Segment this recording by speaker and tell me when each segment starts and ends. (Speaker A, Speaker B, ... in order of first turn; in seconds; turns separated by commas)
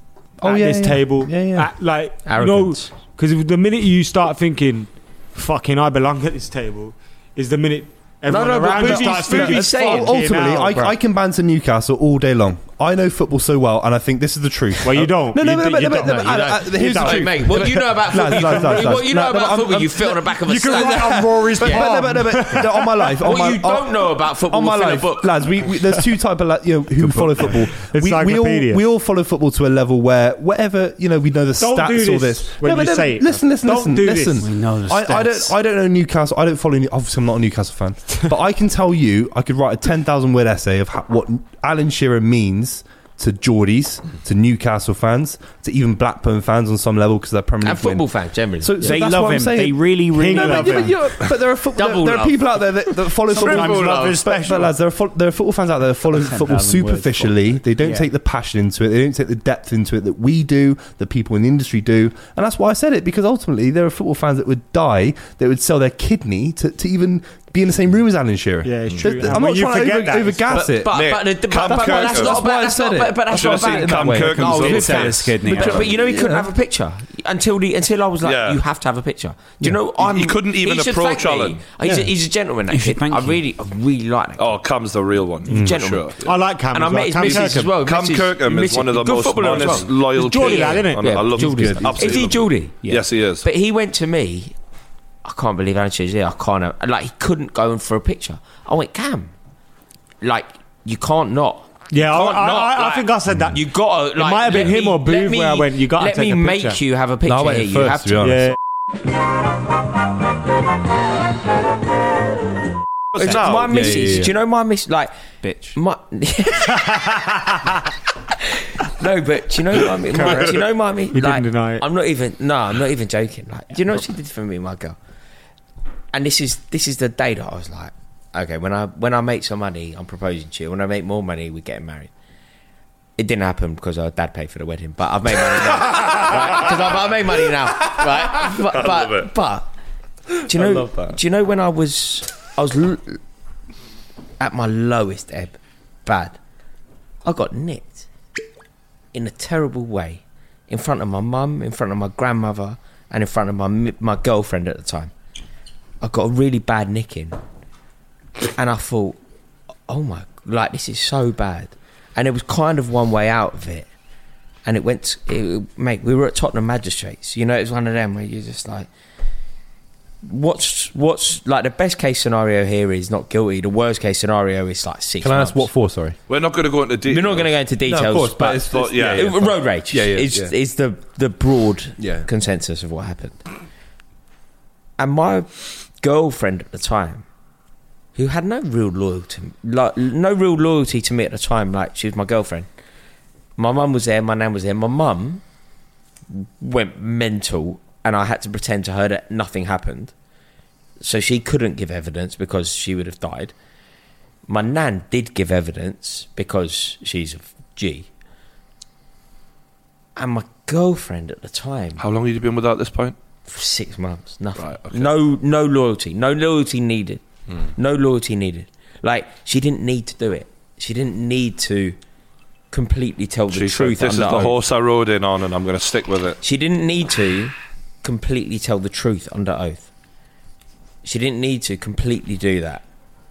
Speaker A: 0.4-10.9, Speaker B: 0.4-1.7, Speaker C: 2.2-2.9, Speaker C: 8.3-10.1, Speaker B: 8.8-48.0, Speaker A: 14.8-19.0, Speaker C: 15.9-21.9, Speaker A: 20.4-23.5, Speaker C: 23.2-25.5, Speaker D: 27.0-27.6, Speaker A: 27.7-28.8, Speaker A: 31.6-34.5, Speaker D: 34.4-35.5, Speaker C: 47.6-49.0, Speaker B: 48.6-71.0, Speaker D: 48.8-50.9, Speaker A: 50.1-50.9, Speaker C: 51.7-52.9, Speaker D: 53.3-54.7, Speaker C: 53.6-54.1, Speaker D: 56.1-58.1, Speaker A: 68.6-70.6, Speaker C: 70.5-84.6, Speaker E: 70.9-72.4, Speaker B: 71.5-75.1, Speaker E: 73.3-75.5, Speaker D: 74.1-76.0, Speaker B: 75.9-76.5, Speaker E: 78.2-78.6, Speaker E: 80.0-81.6, Speaker D: 82.7-83.4, Speaker E: 84.4-86.3, Speaker C: 85.5-86.1, Speaker B: 85.5-85.7, Speaker A: 86.2-87.8, Speaker C: 86.7-94.5, Speaker E: 87.2-93.5, Speaker A: 90.1-91.3, Speaker B: 91.3-92.4, Speaker C: 95.2-99.3, Speaker C: 100.2-108.5, Speaker A: 101.9-106.8, Speaker B: 107.2-108.5, Speaker A: 108.2-108.5, Speaker E: 113.1-114.1, Speaker C: 113.2-115.1, Speaker B: 113.3-114.3, Speaker D: 115.4-115.7, Speaker C: 115.7-117.3, Speaker A: 116.9-117.2, Speaker C: 118.4-125.0, Speaker A: 120.1-120.6, Speaker A: 121.1-121.8, Speaker C: 126.1-132.1, Speaker C: 133.2-139.7, Speaker E: 138.5-139.3, Speaker C: 140.4-143.2, Speaker C: 144.4-146.4, Speaker C: 147.2-148.1, Speaker C: 149.1-155.1, Speaker C: 156.0-157.4, Speaker C: 158.5-159.2, Speaker C: 159.9-163.9, Speaker C: 164.6-168.9, Speaker C: 170.2-175.7, Speaker B: 175.2-176.2, Speaker E: 176.3-177.5, Speaker C: 177.1-183.4, Speaker B: 177.8-180.5, Speaker E: 178.7-179.4, Speaker B: 182.0-182.2, Speaker C: 185.0-187.2, Speaker C: 188.2-192.7, Speaker C: 193.6-195.4, Speaker C: 196.3-200.1, Speaker C: 201.0-203.5, Speaker C: 204.5-208.1, Speaker C: 210.2-212.0, Speaker E: 212.0-213.1, Speaker C: 213.5-222.0, Speaker E: 214.6-215.1, Speaker C: 222.7-224.6, Speaker E: 223.5-226.4, Speaker C: 226.4-229.9, Speaker C: 231.0-232.8